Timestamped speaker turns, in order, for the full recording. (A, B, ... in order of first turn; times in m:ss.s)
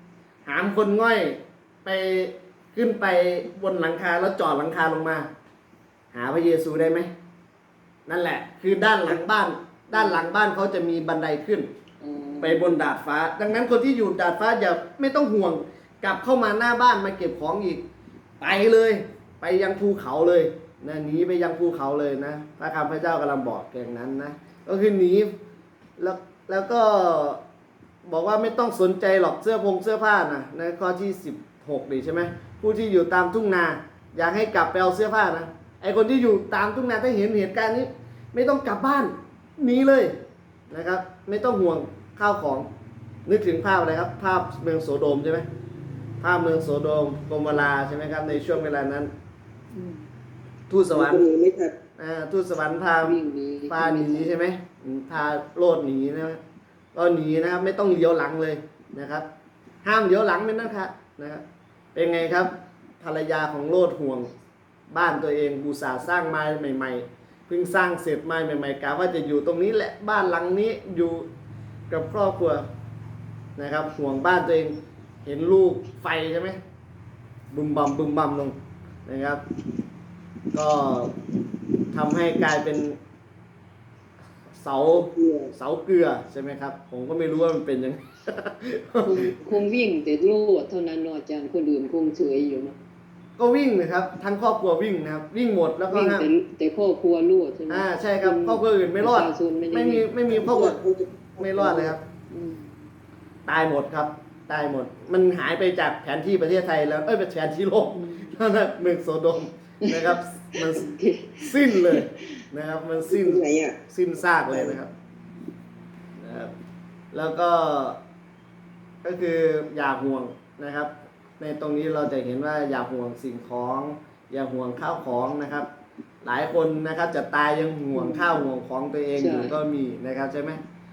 0:00.4-0:05.3 A
0:06.1-0:07.1 A
0:08.1-0:11.7 A
0:09.9-0:10.3 B
0:12.0-0:12.8 B
0:12.4-0:17.8 A
0:18.4-0:25.3 A
0:26.0-0:27.4 A
0:28.0-0:40.2 A
0:40.7-0:42.7 A
0:43.2-0:45.4 A
0:46.2-0:49.1 A
0:49.7-0:50.0 B
0:50.7-0:51.3 A
0:50.9-0:51.7 C
0:52.0-0:53.2 A
0:53.0-0:54.3 B
0:53.7-0:56.4 A
0:56.9-0:59.2 A
0:59.8-1:01.4 A
1:01.9-1:04.3 A
1:04.9-1:11.3 A
1:11.9-1:12.6 A
1:13.6-1:16.6 A
1:17.5-1:19.4 A
1:20.5-1:21.2 A
1:21.9-1:23.0 A
1:24.6-1:29.3 A
1:24.9-1:25.5 C
1:29.0-1:32.8 B
1:33.4-1:36.3 A
1:35.9-1:40.1 B
1:37.7-1:40.8 A
1:40.3-1:42.0 C
1:41.4-1:42.0 A
1:42.3-1:42.8 B
1:43.4-1:54.9 A
1:47.9-1:48.4 B
1:49.8-1:52.3 B
1:53.1-1:53.7 B
1:54.5-1:54.8 B
1:56.2-1:56.5 A
1:57.1-1:58.0 A
1:59.0-2:05.7 A
2:06.2-2:10.6 A
2:07.9-2:08.4 B
2:09.2-2:09.6 B